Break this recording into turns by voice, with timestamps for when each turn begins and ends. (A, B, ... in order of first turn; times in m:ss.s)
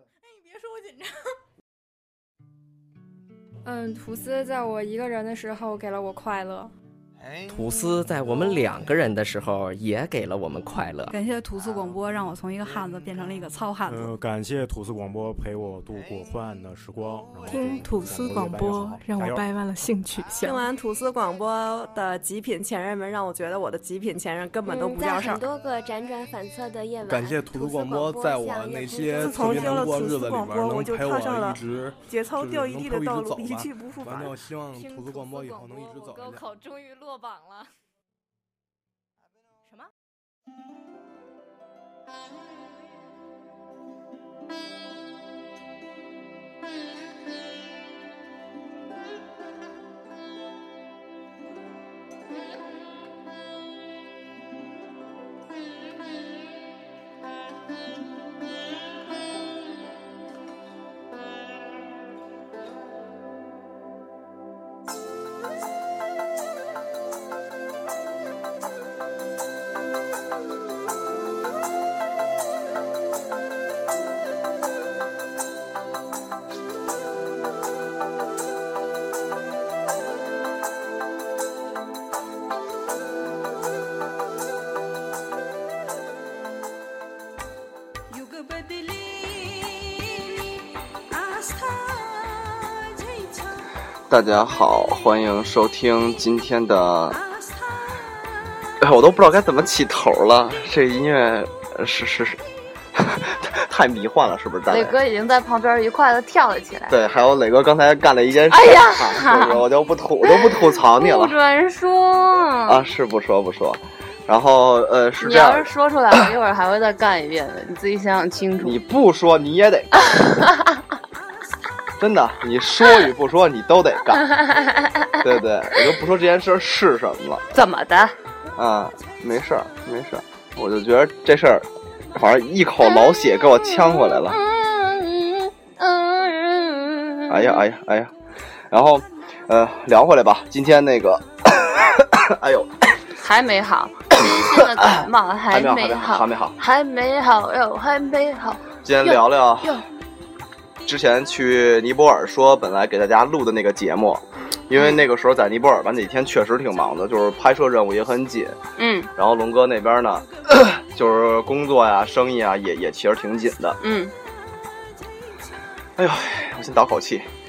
0:00.2-0:01.1 A
0:03.6-0:06.7 B
0:07.5-0:11.1 C
0:11.1-0:14.1 D
0:13.9-0:19.5 E
0:17.4-0:20.7 F
0:20.4-0:25.4 G
0:24.6-0:29.8 H
0:27.0-0:36.5 I
0:29.1-0:34.3 G
0:34.7-0:37.7 A
0:39.6-0:39.9 A
1:28.3-1:28.6 A
1:31.8-1:32.4 F
1:34.1-1:37.2 J
1:38.8-1:42.4 J
1:42.9-1:45.0 J
1:44.7-1:47.0 K
1:46.9-1:51.3 J
1:48.5-1:49.6 K
1:50.2-1:52.8 K
1:52.7-1:55.7 J
1:55.2-1:58.8 K
1:58.6-2:00.2 J
2:00.1-2:00.7 K
2:02.0-2:04.3 J
2:04.3-2:05.4 K
2:05.2-2:07.5 J
2:07.5-2:08.1 K
2:08.6-2:14.4 J
2:12.8-2:17.6 K
2:17.3-2:18.1 J
2:18.7-2:22.7 J
2:23.2-2:29.8 K
2:24.2-2:26.6 J
2:28.8-2:29.8 J
2:30.8-2:38.6 J
2:34.7-2:35.0 K
2:38.8-2:39.1 K
2:39.2-2:43.8 J
2:43.8-2:44.1 K
2:46.0-2:47.3 J